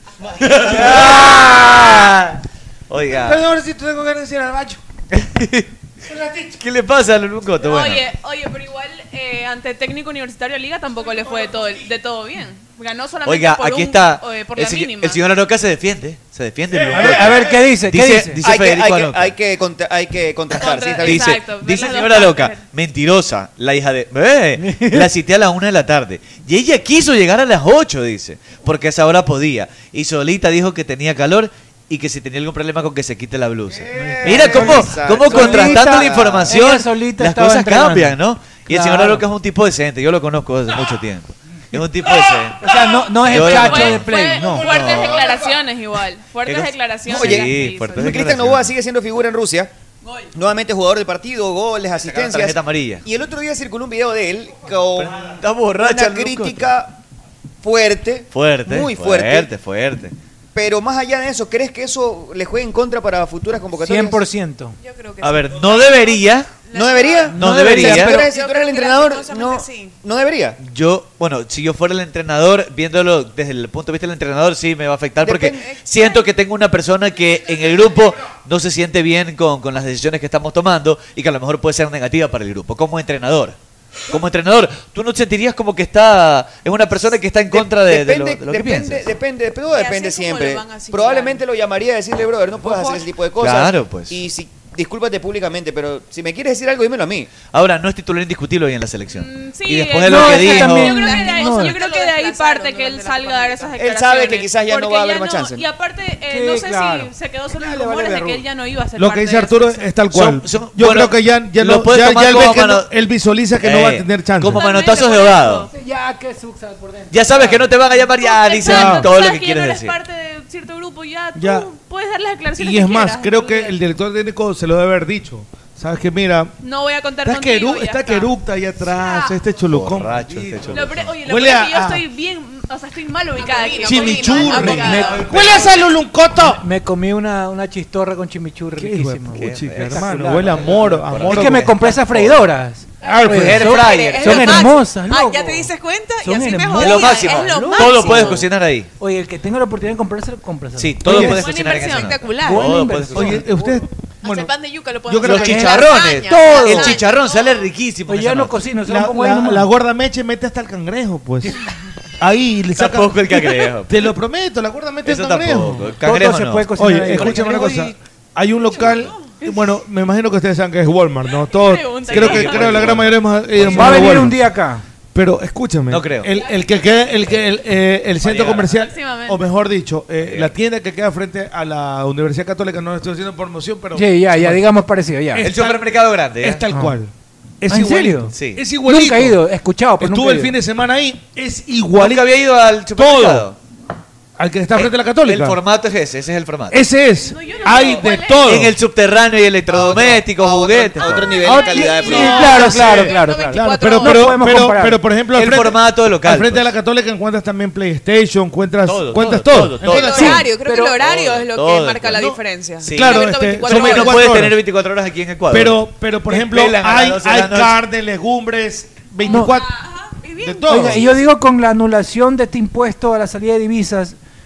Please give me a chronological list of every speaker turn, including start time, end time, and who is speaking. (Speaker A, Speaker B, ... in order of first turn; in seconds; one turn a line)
Speaker A: 0.4-3.4
Speaker B: 0.9-1.7
Speaker B: 3.1-4.8
Speaker A: 5.1-5.7
Speaker B: 6.1-6.6
Speaker A: 6.6-8.0
Speaker C: 7.6-15.2
Speaker A: 13.2-19.4
Speaker D: 16.9-18.4
Speaker E: 16.9-17.5
Speaker E: 18.4-21.4
Speaker A: 20.5-45.3
Speaker C: 20.5-22.6
Speaker D: 24.6-25.1
Speaker E: 33.7-36.5
Speaker D: 34.0-39.3
Speaker C: 42.3-48.2
Speaker D: 42.6-44.8
Speaker F: 44.7-45.1
Speaker B: 45.0-45.3
Speaker A: 46.5-48.7
Speaker E: 47.0-49.7
Speaker E: 50.3-57.0
Speaker A: 52.0-53.0
Speaker A: 55.0-56.7
Speaker E: 57.6-59.5
Speaker A: 58.3-60.2
Speaker E: 60.5-64.2
Speaker D: 63.8-64.7
Speaker G: 64.8-67.4
Speaker A: 65.2-66.5
Speaker E: 66.7-70.6
Speaker D: 67.3-68.2
Speaker A: 67.4-68.3
Speaker G: 68.1-69.9
Speaker A: 70.6-83.6
Speaker E: 75.2-75.7
Speaker A: 84.1-89.1
Speaker E: 87.5-97.3
Speaker G: 89.7-91.4
Speaker A: 93.4-94.2
Speaker A: 97.5-101.2
Speaker C: 99.1-110.0
Speaker D: 100.0-101.8
Speaker G: 100.9-103.8
Speaker E: 103.8-105.7
Speaker D: 106.3-108.5
Speaker F: 109.0-114.7
Speaker A: 110.1-112.9
Speaker A: 113.6-115.7
Speaker C: 114.5-115.7
Speaker D: 115.7-117.7
Speaker A: 117.1-120.0
Speaker C: 118.0-123.8
Speaker F: 118.6-119.1
Speaker F: 121.4-121.7
Speaker F: 122.6-126.5
Speaker C: 126.6-128.3
Speaker F: 127.2-132.0
Speaker C: 129.0-129.3
Speaker A: 129.7-131.2
Speaker C: 130.7-135.6
Speaker G: 133.3-135.2
Speaker F: 133.8-135.8
Speaker D: 134.6-135.2
Speaker B: 135.3-136.7
Speaker D: 136.4-145.7
Speaker F: 138.8-141.8
Speaker A: 139.3-142.5
Speaker F: 143.0-143.7
Speaker A: 143.2-144.7
Speaker G: 143.4-148.5
Speaker D: 146.2-148.5
Speaker A: 146.8-148.9
Speaker D: 149.0-151.4
Speaker A: 150.8-153.4
Speaker F: 151.1-151.4
Speaker G: 151.1-152.7
Speaker D: 152.3-153.5
Speaker F: 153.1-154.5
Speaker G: 154.2-157.4
Speaker F: 155.1-155.6
Speaker A: 155.2-158.6
Speaker D: 155.3-157.0
Speaker D: 158.1-159.7
Speaker F: 158.9-161.5
Speaker F: 162.2-166.0
Speaker A: 162.8-164.1
Speaker A: 165.1-166.7
Speaker D: 166.0-168.0
Speaker F: 166.8-174.4
Speaker C: 171.4-172.9
Speaker A: 172.1-174.3
Speaker D: 173.7-174.8
Speaker F: 175.1-184.6
Speaker A: 175.9-176.3
Speaker C: 176.3-177.0
Speaker A: 178.2-178.8
Speaker C: 178.8-179.4
Speaker A: 180.2-180.5
Speaker D: 183.9-185.5
Speaker F: 185.3-189.4
Speaker A: 185.4-186.6
Speaker D: 186.7-187.0
Speaker D: 187.7-190.6
Speaker A: 188.3-188.6
Speaker F: 190.0-192.3
Speaker A: 192.0-193.6
Speaker F: 192.9-193.5
Speaker F: 194.4-195.6
Speaker A: 194.8-196.9
Speaker F: 196.7-198.8
Speaker C: 197.3-198.6
Speaker A: 198.4-201.4
Speaker E: 199.7-202.7
Speaker D: 201.4-205.0
Speaker C: 201.6-204.6
Speaker F: 201.8-210.1
Speaker A: 205.3-206.7
Speaker A: 208.9-210.5
Speaker D: 209.8-211.0
Speaker G: 209.8-214.2
Speaker A: 211.0-217.8
Speaker F: 212.9-214.6
Speaker F: 215.5-219.7
Speaker D: 219.3-219.6
Speaker G: 220.1-221.2
Speaker F: 220.4-221.1
Speaker D: 220.7-224.2